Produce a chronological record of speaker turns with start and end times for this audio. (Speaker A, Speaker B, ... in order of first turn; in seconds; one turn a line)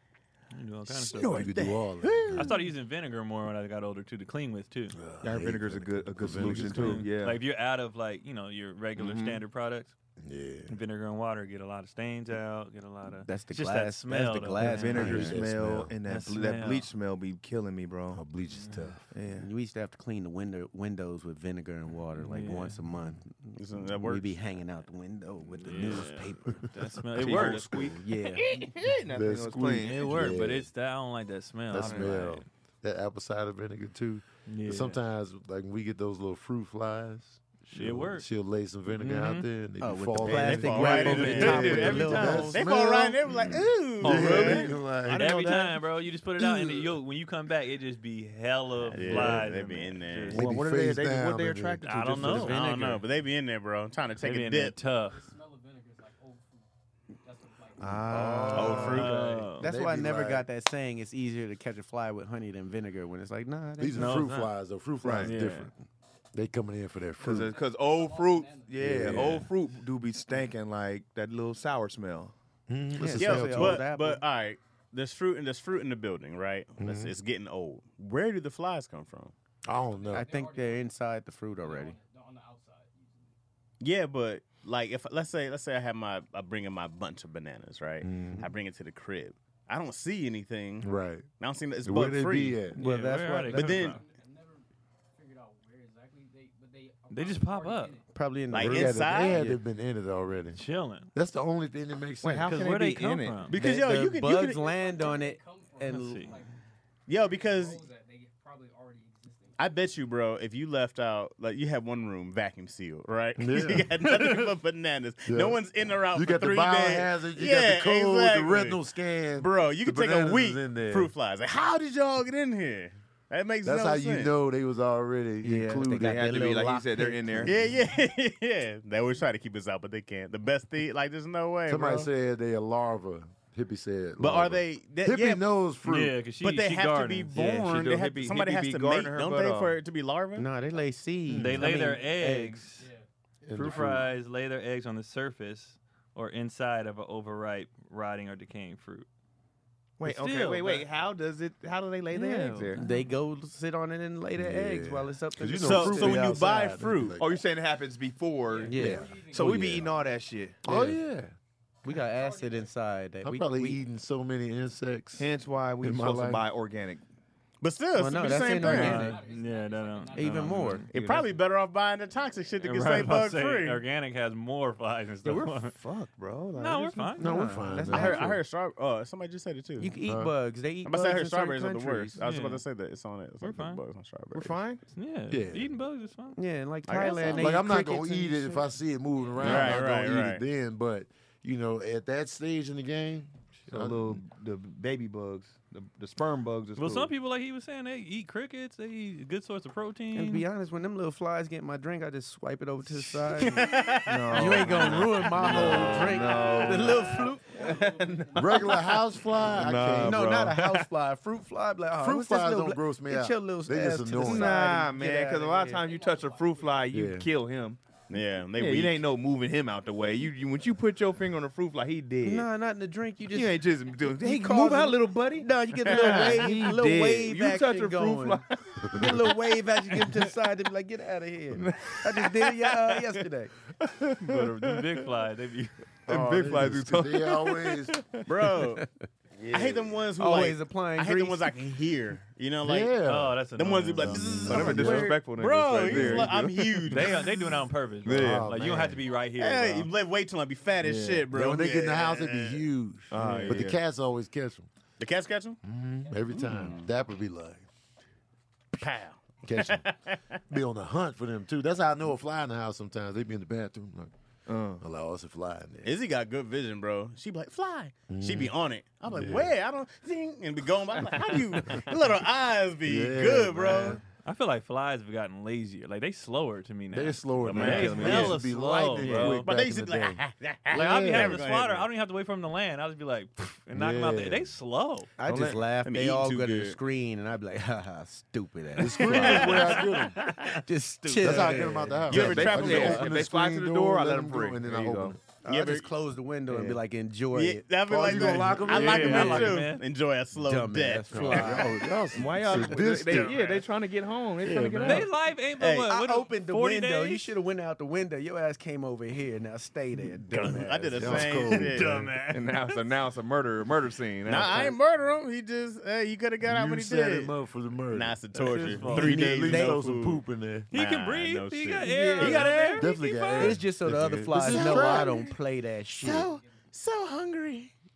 Speaker A: 0.5-1.6
Speaker B: 0.9-2.6
Speaker C: 1.2-2.5
Speaker A: 2.3-5.0
Speaker C: 4.9-7.0
Speaker D: 5.2-7.4
Speaker A: 6.4-9.9
Speaker D: 9.0-9.4
Speaker C: 10.2-10.8
Speaker A: 10.7-15.2
Speaker E: 13.2-15.4
Speaker D: 14.6-18.2
Speaker C: 14.9-15.9
Speaker A: 16.1-16.9
Speaker C: 18.1-19.0
Speaker A: 18.5-18.9
Speaker D: 19.1-19.5
Speaker E: 19.3-26.7
Speaker A: 22.2-22.8
Speaker B: 23.6-24.4
Speaker A: 25.6-28.0
Speaker D: 27.2-27.9
Speaker C: 27.3-27.9
Speaker B: 27.3-27.8
Speaker E: 27.9-28.7
Speaker B: 28.4-28.9
Speaker D: 28.6-30.3
Speaker C: 29.1-30.7
Speaker A: 29.8-32.4
Speaker C: 31.7-45.3
Speaker D: 31.8-32.1
Speaker A: 34.5-35.0
Speaker A: 37.7-38.3
Speaker A: 39.0-39.5
Speaker E: 39.8-42.7
Speaker B: 40.2-44.7
Speaker A: 40.8-42.6
Speaker D: 44.0-45.8
Speaker A: 44.2-44.6
Speaker A: 45.1-50.5
Speaker C: 46.4-46.8
Speaker B: 48.9-50.4
Speaker C: 48.9-49.5
Speaker D: 50.3-52.5
Speaker C: 50.3-52.3
Speaker A: 51.8-52.6
Speaker E: 52.2-53.0
Speaker B: 52.5-54.8
Speaker A: 54.2-55.3
Speaker F: 55.0-56.7
Speaker F: 57.2-58.5
Speaker D: 57.8-59.1
Speaker C: 58.1-60.5
Speaker B: 58.5-59.5
Speaker A: 58.8-59.7
Speaker E: 59.6-64.2
Speaker C: 63.8-65.7
Speaker A: 64.0-64.5
Speaker D: 65.0-65.3
Speaker A: 65.1-65.7
Speaker C: 66.3-67.5
Speaker F: 67.2-69.0
Speaker D: 67.2-72.3
Speaker C: 68.8-69.4
Speaker A: 69.0-69.5
Speaker C: 72.7-73.9
Speaker E: 73.0-74.2
Speaker B: 73.1-79.3
Speaker C: 76.8-77.1
Speaker C: 79.6-80.3
Speaker F: 79.7-81.0
Speaker E: 80.1-82.0
Speaker F: 81.6-83.3
Speaker B: 83.8-92.7
Speaker C: 88.0-88.5
Speaker C: 90.8-91.3
Speaker C: 91.8-92.8
Speaker E: 92.7-93.9
Speaker A: 92.8-94.0
Speaker F: 93.5-98.1
Speaker B: 93.5-94.0
Speaker A: 97.1-98.0
Speaker E: 98.1-99.6
Speaker B: 98.5-99.4
Speaker C: 98.5-100.6
Speaker A: 100.5-101.1
Speaker C: 101.1-102.6
Speaker D: 102.2-103.5
Speaker A: 102.5-103.6
Speaker E: 103.5-106.3
Speaker B: 103.5-104.7
Speaker F: 104.4-109.6
Speaker A: 105.9-106.4
Speaker B: 107.1-107.8
Speaker B: 109.6-118.8
Speaker C: 113.4-113.9
Speaker A: 114.0-114.5
Speaker C: 115.2-115.6
Speaker C: 116.1-121.1
Speaker B: 119.3-124.3
Speaker C: 123.6-126.3
Speaker D: 125.4-127.5
Speaker E: 125.7-127.6
Speaker B: 127.4-132.1
Speaker C: 131.7-136.2
Speaker B: 134.2-135.4
Speaker A: 135.8-137.5
Speaker B: 136.4-140.5
Speaker D: 137.3-139.8
Speaker E: 140.4-142.7
Speaker F: 140.6-142.0
Speaker C: 141.3-141.7
Speaker A: 141.4-142.9
Speaker F: 142.8-143.0
Speaker C: 143.4-144.1
Speaker A: 143.6-149.1
Speaker F: 143.6-144.1
Speaker D: 150.0-152.8
Speaker A: 150.0-150.9
Speaker A: 152.1-153.1
Speaker E: 152.8-156.4
Speaker C: 154.3-157.3
Speaker B: 155.6-157.1
Speaker D: 155.6-160.6
Speaker F: 158.4-160.2
Speaker E: 158.7-159.8
Speaker C: 158.7-159.8
Speaker C: 160.6-161.3
Speaker F: 161.8-162.8
Speaker E: 161.8-163.8
Speaker C: 163.2-165.3
Speaker D: 165.2-167.0
Speaker C: 165.8-166.4
Speaker B: 167.6-169.1
Speaker E: 167.9-169.2
Speaker F: 168.3-170.8
Speaker A: 168.6-170.9
Speaker E: 170.1-170.9
Speaker B: 170.9-173.8
Speaker D: 170.9-171.3
Speaker A: 172.6-175.8
Speaker D: 175.2-177.2
Speaker A: 176.6-177.4
Speaker E: 177.2-178.3
Speaker C: 177.2-178.4
Speaker D: 177.7-178.2
Speaker B: 177.8-180.0
Speaker E: 179.8-182.2
Speaker C: 180.0-180.3
Speaker B: 180.8-184.6
Speaker A: 182.2-182.6
Speaker A: 183.4-183.8
Speaker D: 184.3-184.8
Speaker A: 184.9-186.4
Speaker C: 185.3-185.8
Speaker E: 186.3-188.7
Speaker B: 186.8-187.6
Speaker C: 187.3-194.2
Speaker F: 189.1-189.7
Speaker B: 189.4-190.4
Speaker D: 193.7-197.1
Speaker A: 196.8-200.4
Speaker E: 200.1-203.7
Speaker B: 203.4-205.0
Speaker D: 204.1-208.9
Speaker E: 204.3-207.8
Speaker F: 205.3-209.5
Speaker C: 208.3-210.3
Speaker D: 209.4-210.9
Speaker E: 210.0-215.8
Speaker C: 211.9-214.7
Speaker D: 214.2-217.8
Speaker F: 214.7-217.1
Speaker C: 216.9-217.3
Speaker B: 218.1-219.1
Speaker D: 218.5-222.5
Speaker E: 222.2-233.5
Speaker D: 223.3-229.4
Speaker B: 225.8-226.5
Speaker C: 228.8-229.2
Speaker D: 229.9-230.2
Speaker D: 231.5-233.0
Speaker D: 233.8-235.0
Speaker A: 234.2-235.7
Speaker C: 236.1-238.0
Speaker D: 236.1-238.4
Speaker B: 238.2-238.8
Speaker B: 239.5-247.4
Speaker E: 240.2-241.8
Speaker C: 242.6-243.4
Speaker A: 243.0-244.7
Speaker C: 244.0-245.2
Speaker D: 244.4-247.1
Speaker A: 246.9-249.9
Speaker D: 248.0-248.5
Speaker C: 248.1-249.0
Speaker B: 249.3-252.6
Speaker A: 250.8-251.2
Speaker C: 251.3-254.7
Speaker D: 253.1-253.8
Speaker B: 253.2-253.6
Speaker B: 255.0-255.6
Speaker C: 255.6-257.7
Speaker F: 256.0-256.8
Speaker B: 256.3-256.9
Speaker B: 258.8-260.4
Speaker C: 259.4-259.8
Speaker C: 260.5-264.1
Speaker D: 264.5-264.8
Speaker C: 264.8-266.0
Speaker B: 265.8-274.0
Speaker C: 268.1-268.5
Speaker C: 269.1-269.5
Speaker C: 272.8-274.0
Speaker A: 274.2-279.5
Speaker C: 276.9-281.4
Speaker B: 277.4-278.3
Speaker D: 277.5-278.4
Speaker D: 279.0-279.4
Speaker B: 279.4-281.9
Speaker A: 280.7-285.1
Speaker C: 283.7-284.5
Speaker E: 285.2-289.8
Speaker D: 285.3-285.6
Speaker B: 285.8-286.8
Speaker C: 288.8-290.3
Speaker B: 289.1-289.8
Speaker A: 289.1-290.6
Speaker E: 290.4-293.1
Speaker C: 291.2-295.2
Speaker B: 292.1-293.1
Speaker D: 292.1-295.2
Speaker E: 295.4-299.6
Speaker B: 295.5-295.9
Speaker D: 296.5-296.8
Speaker B: 297.3-301.6
Speaker C: 297.9-299.6
Speaker A: 298.6-299.8
Speaker E: 300.4-301.8
Speaker C: 301.1-303.4
Speaker D: 302.1-305.1
Speaker A: 303.1-303.6
Speaker C: 304.4-305.0
Speaker A: 304.8-307.3
Speaker B: 305.6-305.9
Speaker E: 305.9-311.4
Speaker B: 310.5-312.0
Speaker C: 310.9-312.1
Speaker A: 311.4-312.8
Speaker D: 312.3-314.8
Speaker B: 314.2-317.3
Speaker C: 316.4-318.2
Speaker B: 317.9-322.8
Speaker A: 318.3-319.3
Speaker E: 318.9-319.8
Speaker C: 318.9-320.7
Speaker A: 320.7-323.6
Speaker E: 321.8-322.5
Speaker C: 322.8-325.3
Speaker E: 323.4-326.3
Speaker B: 324.4-325.3
Speaker B: 325.9-327.7
Speaker F: 326.1-326.7